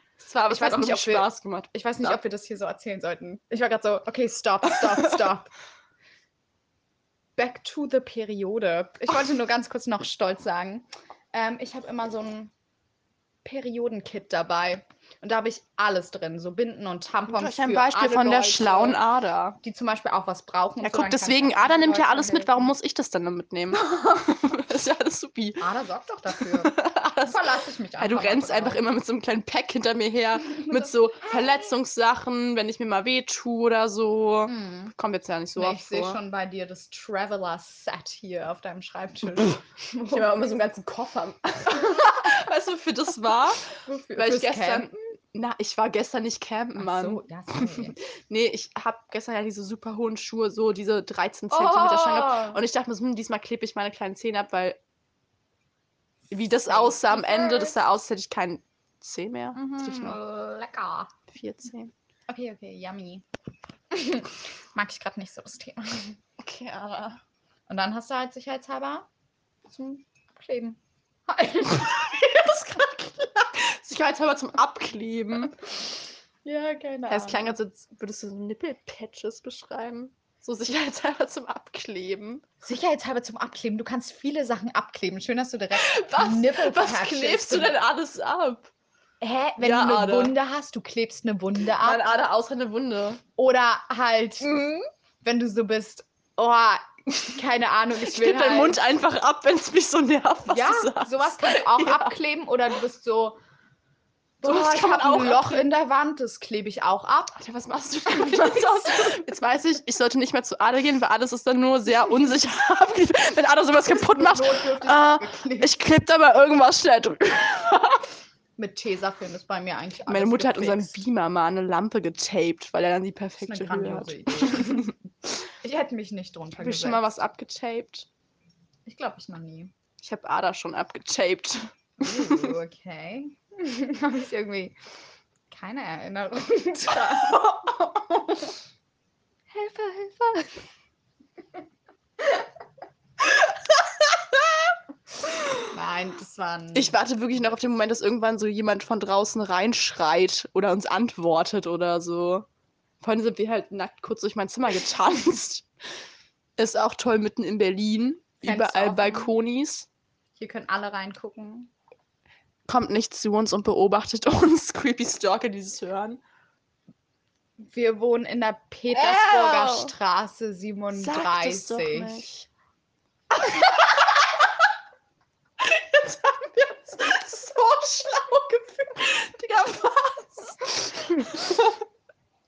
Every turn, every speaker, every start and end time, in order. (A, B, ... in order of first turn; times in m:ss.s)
0:00.2-0:02.2 A
0:00.5-0:05.5 B
0:07.4-0:12.5 B
0:13.4-0:19.0 B
0:17.3-0:19.6 A
0:19.6-0:22.7 B
0:20.8-0:25.7 A
0:25.6-0:26.8 B
0:26.3-0:36.2 A
0:27.3-0:28.8 B
0:30.5-0:31.7 B
0:34.5-0:34.9 B
0:35.6-0:40.6 B
0:40.1-0:54.8 A
0:43.9-0:44.9 B
0:46.8-0:48.0 B
0:51.5-0:52.6 B
0:56.3-1:00.2 A
0:56.6-0:57.8 B
0:59.6-1:01.1 B
1:01.3-1:01.9 A
1:02.3-1:03.2 B
1:03.9-1:06.2 B
1:06.4-1:07.2 A
1:07.7-1:09.1 B
1:09.7-1:12.5 B
1:12.0-1:15.6 A
1:16.4-1:17.6 B
1:17.1-1:22.4 A
1:22.6-1:27.8 B
1:25.8-1:28.7 A
1:29.2-1:32.0 B
1:29.6-1:30.4 A
1:31.8-1:33.2 A
1:33.4-1:34.6 B
1:34.4-1:34.9 A
1:35.2-1:38.8 B
1:38.0-1:42.2 A
1:40.5-1:43.4 B
1:44.4-1:47.4 B
1:44.4-1:45.6 A
1:47.4-1:58.0 A
1:48.1-1:49.1 B
1:53.8-1:55.8 B
1:58.6-2:01.0 B
2:00.1-2:04.9 A
2:03.4-2:04.9 B
2:05.6-2:07.1 B
2:06.6-2:08.1 A
2:08.8-2:09.7 B
2:10.0-2:12.5 A
2:12.0-2:14.8 B
2:15.5-2:18.5 B
2:19.5-2:20.6 B
2:25.7-2:27.0 B
2:26.7-2:32.5 A
2:33.0-2:35.7 A
2:36.6-2:39.9 A
2:38.4-2:39.3 B
2:40.4-2:41.7 B
2:42.7-2:46.2 A
2:47.6-2:52.2 B
2:48.9-2:49.9 A
2:50.9-2:52.5 A
2:53.3-2:54.5 A
2:55.6-3:01.7 A